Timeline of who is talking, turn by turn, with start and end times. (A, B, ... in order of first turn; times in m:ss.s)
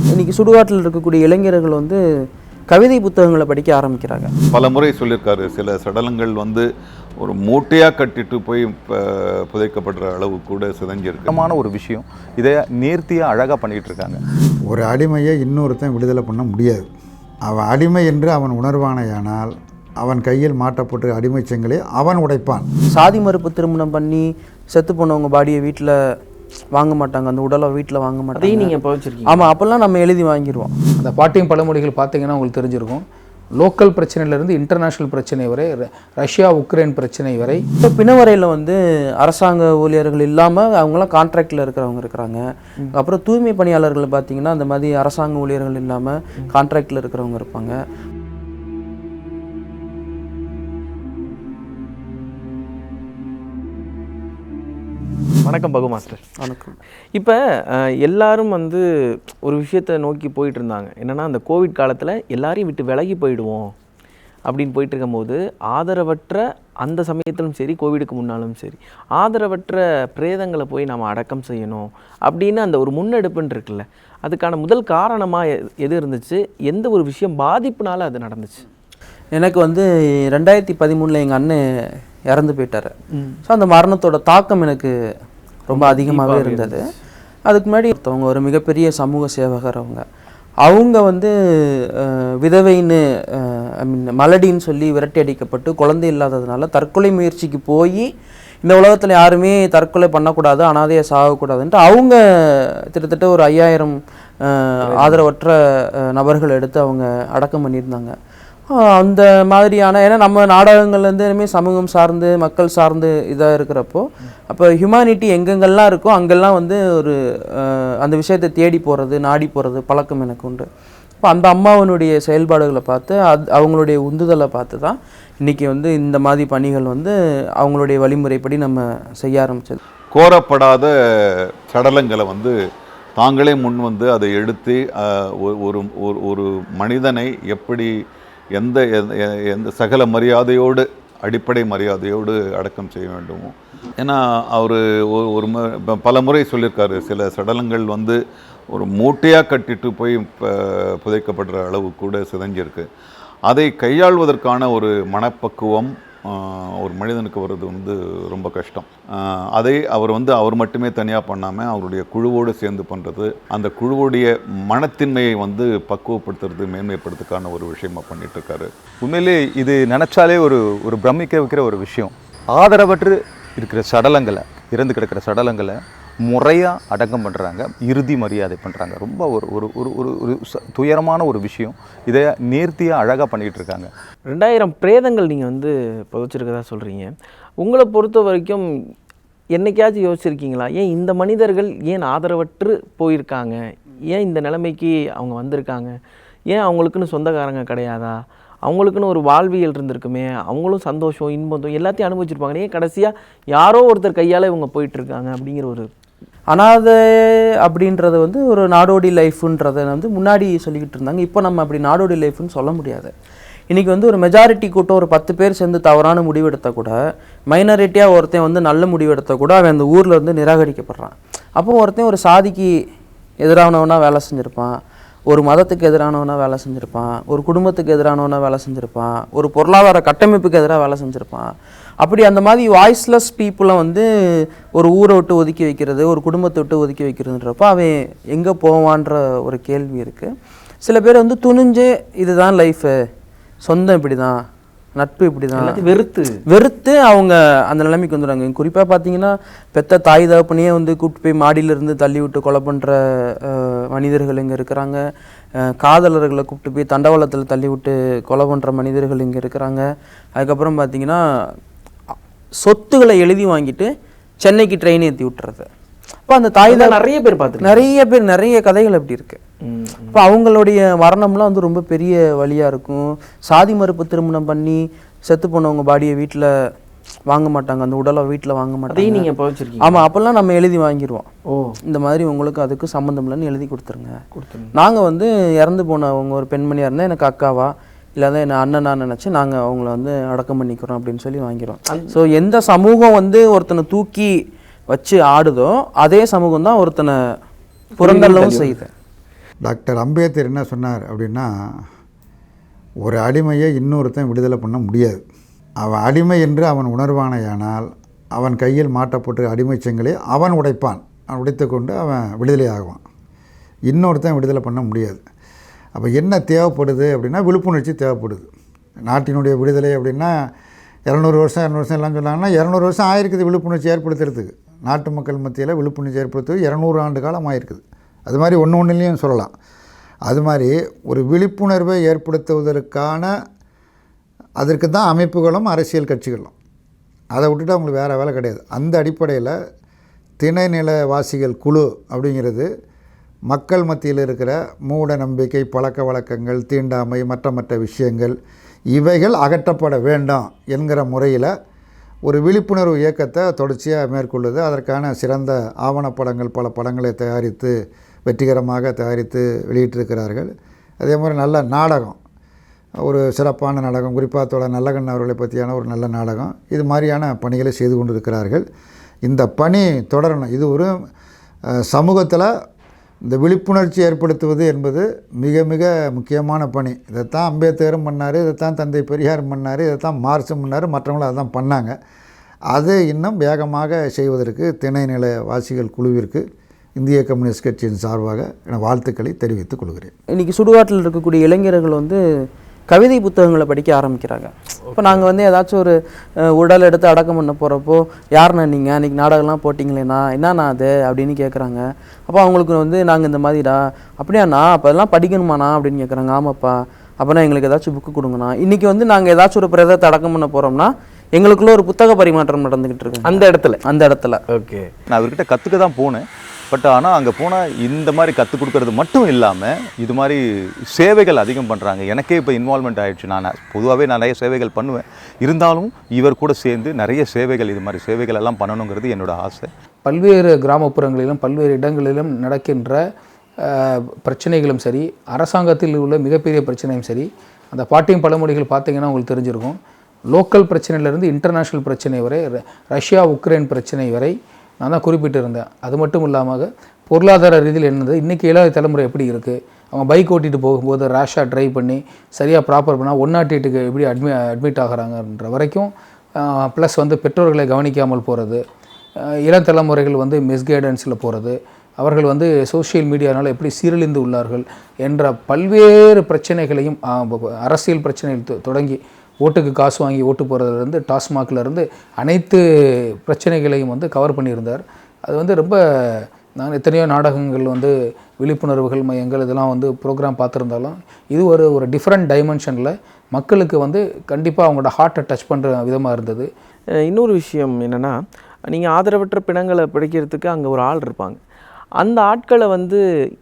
0:00.1-0:02.0 A
0:02.7-0:04.3 A
0:04.5-0:06.7 B
0:07.2-0:11.4 B
0:11.3-0:14.2 C
0:14.7-0:16.9 D
0:17.5-0:22.7 D
0:22.9-0:26.0 A
0:26.7-0:28.7 A
0:28.4-0:29.5 E
0:29.3-0:30.7 A
0:31.0-0:33.0 F
0:33.6-0:37.7 F
0:37.8-0:42.4 A
0:42.9-0:47.8 A
0:55.4-0:56.3 E
0:56.4-0:56.8 A
0:58.0-0:58.8 E
0:59.4-1:03.7 E
1:04.5-1:18.6 E
1:19.4-1:21.6 A
1:22.3-1:22.9 A
1:23.5-1:24.9 A
1:25.7-1:26.8 E
1:25.7-1:26.8 A
1:27.5-1:30.0 A
1:30.6-1:38.1 A
1:38.6-1:48.1 A
1:44.9-1:45.2 E
1:48.7-2:00.7 A
2:01.2-2:09.8 A
2:10.1-2:10.9 B
2:11.7-2:12.5 B
2:13.2-2:17.9 B
2:18.6-2:28.2 B
2:28.7-2:32.9 B
2:33.5-2:38.9 B
2:39.6-2:48.7 B
2:49.0-3:03.9 C
3:04.3-3:08.6 E
3:09.6-3:13.6 E
3:14.1-3:15.9 E
3:16.5-3:18.1 E
3:18.7-3:25.9 E
3:26.5-3:33.1 A
3:33.7-3:37.0 A
3:37.5-3:42.7 A
3:43.4-3:44.7 A
3:45.3-4:00.3 A
4:00.8-4:02.9 A
4:03.6-4:04.4 A
4:05.0-4:05.9 A
4:05.6-4:06.3 E
4:06.5-4:15.0 A
4:15.6-4:21.2 A
4:22.6-4:23.9 A
4:24.4-4:25.7 A
4:26.3-4:27.0 A
4:26.6-4:27.8 E
4:27.6-4:29.4 A
4:29.7-4:30.2 E
4:30.1-4:36.5 A
4:37.3-4:39.3 A
4:38.9-4:40.0 E
4:39.8-4:41.3 A
4:41.9-4:44.2 A
4:44.4-4:44.7 E
4:44.8-4:54.4 A
4:54.9-4:57.2 A
4:58.0-4:58.8 E
4:58.0-4:58.9 A
4:59.6-5:01.5 D
5:03.0-5:05.2 D
5:05.8-5:13.0 D
5:13.9-5:15.2 D
5:16.0-5:18.5 D
5:19.1-5:20.3 D
5:21.1-5:29.5 D
5:30.3-5:33.3 D
5:34.6-5:36.5 D
5:37.3-5:39.6 D
5:40.4-5:42.7 D
5:43.5-5:48.4 D
5:48.9-5:51.5 D
5:52.3-5:57.7 D
5:58.3-6:02.2 D
6:03.0-6:08.6 D
6:09.2-6:10.9 D
6:11.7-6:12.5 D
6:13.3-6:21.9 D
6:22.7-6:26.4 D
6:27.0-6:30.1 D
6:30.3-6:32.2 A
6:32.9-6:54.4 A
6:53.2-6:53.8 E
6:54.6-6:54.9 E
6:55.1-7:09.7 C
7:10.0-7:13.0 F
7:13.6-7:38.6 F
7:39.2-7:52.6 F
7:53.2-8:06.5 F
8:07.1-8:08.1 E
8:08.7-8:11.4 E
8:12.0-8:13.0 E